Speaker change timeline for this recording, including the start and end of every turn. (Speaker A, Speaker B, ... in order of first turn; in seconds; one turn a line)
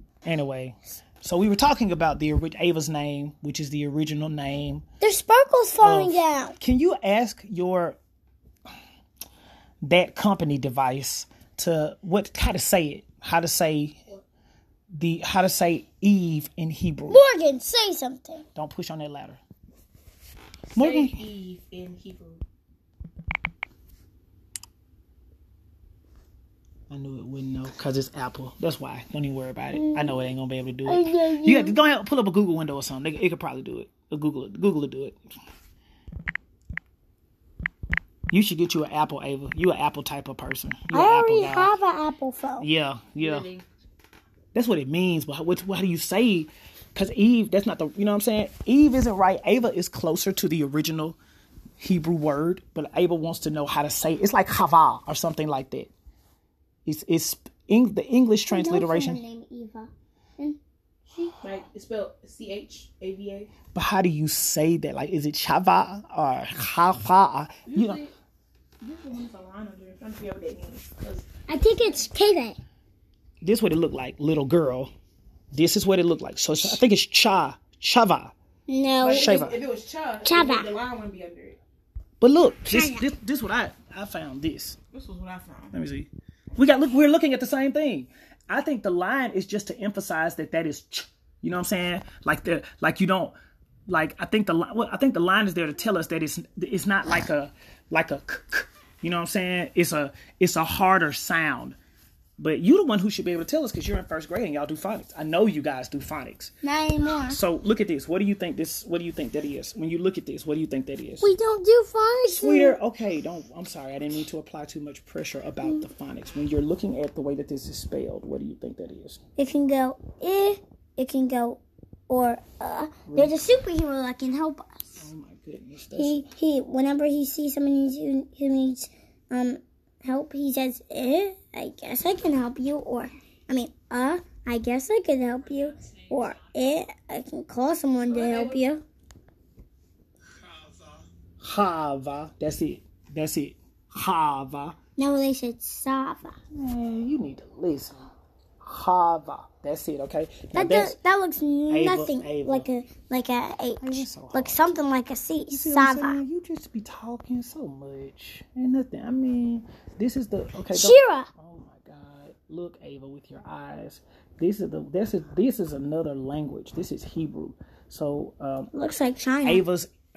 Speaker A: 0.2-4.8
Speaker B: 5.0-6.6
Speaker A: 5.8-8.0
Speaker A: 9.8-14.0
Speaker A: 14.9-17.2
Speaker B: 17.1-18.4
Speaker A: 18.5-19.4
Speaker A: 20.7-21.2
Speaker C: 20.7-22.4
Speaker A: 26.9-35.2
Speaker B: 29.7-30.2
Speaker B: 30.9-31.8
Speaker A: 38.3-41.7
Speaker B: 40.9-42.7
Speaker A: 42.6-43.5
Speaker C: 43.2-43.6
Speaker A: 44.5-51.2
Speaker A: 51.8-55.9
Speaker A: 56.9-59.2
Speaker B: 58.5-60.6
Speaker C: 61.4-63.5
Speaker A: 63.7-68.0
Speaker C: 67.7-68.1
Speaker C: 68.8-71.3
Speaker B: 71.5-72.6
Speaker A: 73.4-74.9
Speaker A: 75.5-78.3
Speaker B: 78.7-79.4
Speaker C: 79.0-81.6
Speaker A: 79.1-79.6
Speaker B: 80.2-80.7
Speaker A: 82.2-84.8
Speaker B: 82.7-83.0
Speaker C: 84.9-85.7
Speaker A: 85.7-93.3
Speaker A: 93.9-101.8
Speaker A: 102.4-106.5
Speaker B: 106.6-107.4
Speaker A: 107.3-111.3
Speaker B: 111.2-112.8
Speaker A: 112.3-119.2
Speaker B: 119.4-125.1
Speaker A: 123.1-123.4
Speaker A: 125.0-126.2
Speaker B: 126.0-138.8
Speaker C: 138.0-138.6
Speaker A: 141.4-144.8
Speaker B: 145.0-146.3
Speaker A: 146.5-147.9
Speaker A: 148.6-151.0
Speaker B: 150.5-156.2
Speaker A: 151.7-152.7
Speaker A: 153.8-154.6
Speaker A: 155.5-168.7
Speaker B: 160.7-161.3
Speaker B: 168.7-169.6
Speaker A: 169.4-169.9